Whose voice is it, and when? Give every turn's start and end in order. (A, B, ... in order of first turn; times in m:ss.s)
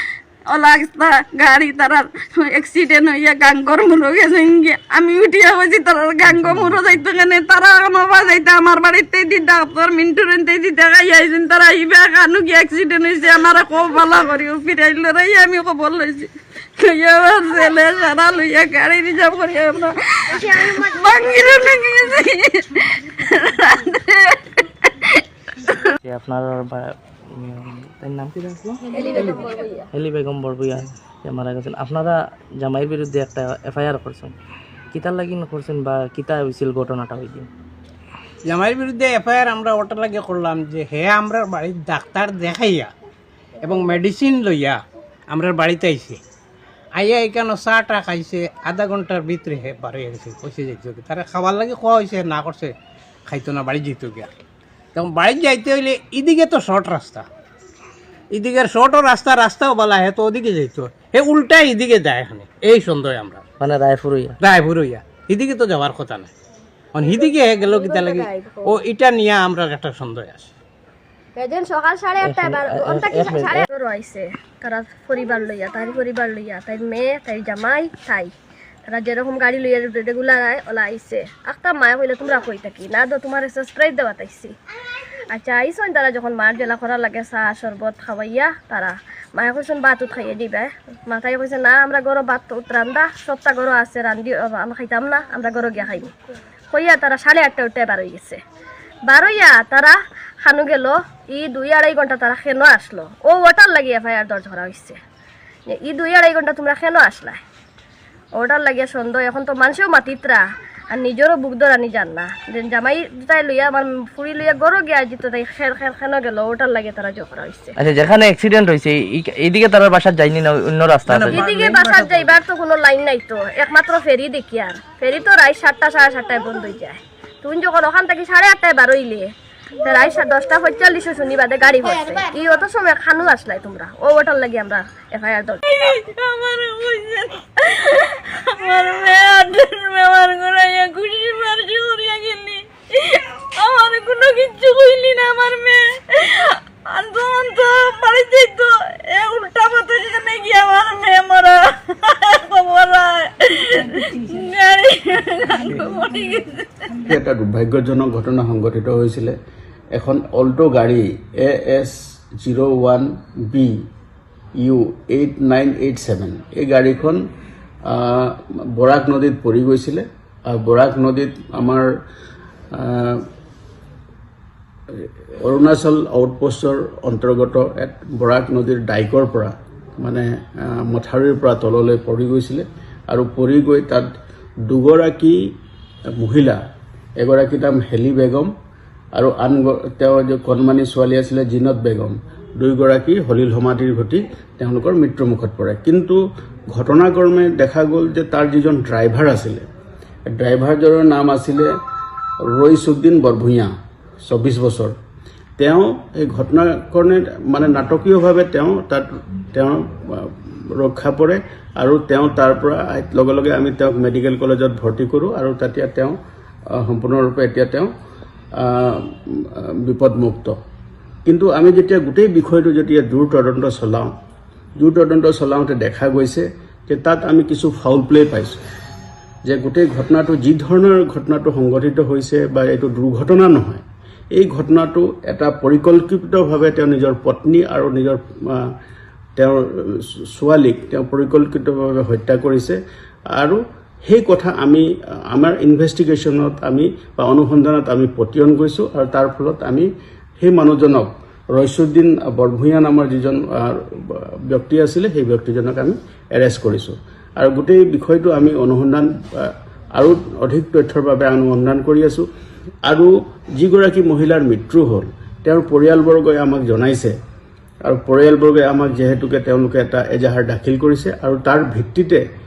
0:00.5-0:25.2 A
0:06.4-0:06.7 B
0:20.3-0:21.2 C
0:26.0-0:29.1 B
0:28.9-0:29.9 C
0:29.9-0:34.3 B
0:34.9-0:37.5 B
0:38.5-0:42.9 D
0:43.6-0:44.8 D
0:45.3-0:46.2 D
0:47.0-0:52.7 D
0:53.3-0:54.3 D
0:54.9-0:57.2 D
0:58.3-1:03.4 D
1:03.6-1:04.4 B
1:04.4-1:06.3 D
1:06.9-1:10.5 D
1:07.6-1:08.8 C
1:11.4-1:18.3 C
1:12.2-1:13.7 B
1:18.9-1:24.5 C
1:25.3-1:36.1 C
1:36.7-1:38.4 C
1:39.1-1:45.0 C
1:45.8-1:47.4 C
1:48.4-1:57.7 C
1:57.8-2:01.4 B
2:01.1-2:02.3 D
2:01.3-2:09.3 C
2:09.8-2:15.6 C
2:15.7-2:37.0 A
2:37.0-2:39.4 E
2:39.9-2:43.7 E
2:44.6-2:47.2 E
2:47.8-2:51.9 E
2:52.7-2:53.3 E
2:55.0-3:04.1 E
3:04.7-3:05.4 E
3:06.2-3:06.6 E
3:07.2-3:08.5 E
3:09.2-3:16.2 E
3:16.7-3:19.6 E
3:20.3-3:21.7 E
3:22.5-3:23.7 E
3:24.2-3:24.9 E
3:25.6-3:36.2 E
3:36.7-3:37.9 E
3:38.6-3:40.6 E
3:41.2-3:44.1 E
3:44.8-3:48.6 E
3:49.4-3:53.8 E
3:54.4-3:58.7 E
3:59.4-4:02.8 E
4:03.3-4:09.9 E
4:10.4-4:22.2 E
4:22.8-4:27.1 E
4:27.8-4:32.2 E